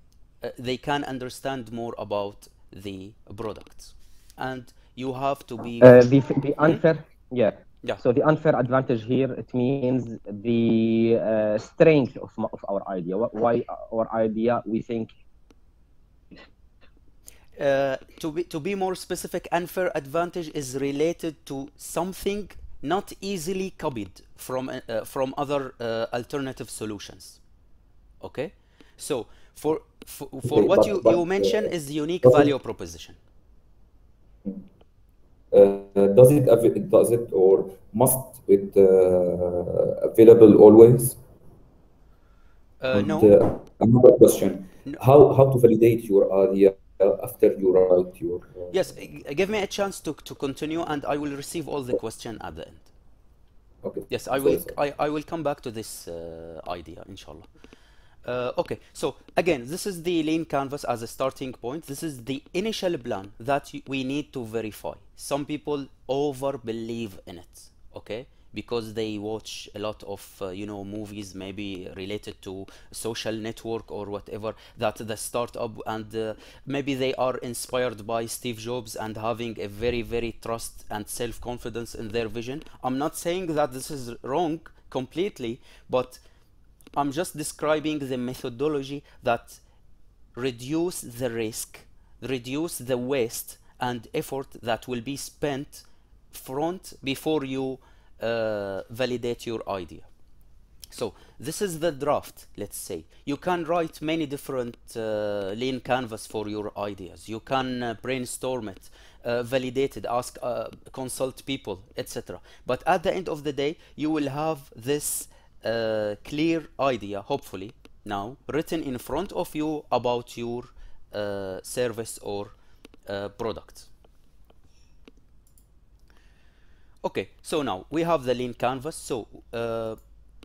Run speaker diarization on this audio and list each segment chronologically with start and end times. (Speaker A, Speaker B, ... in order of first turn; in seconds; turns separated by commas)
Speaker A: 0.4-6.0, Speaker B: 5.8-15.1, Speaker A: 17.6-27.4, Speaker A: 28.2-33.2, Speaker C: 30.4-31.7, Speaker C: 32.2-32.5, Speaker C: 35.5-41.2, Speaker A: 42.8-43.4, Speaker C: 42.9-48.7, Speaker A: 48.7-52.9, Speaker C: 53.8-54.8, Speaker A: 54.1-57.5, Speaker A: 58.2-86.2, Speaker A: 86.9-89.6, Speaker A: 90.3-100.1, Speaker A: 100.9-122.5, Speaker A: 123.1-123.9, Speaker A: 127.0-130.0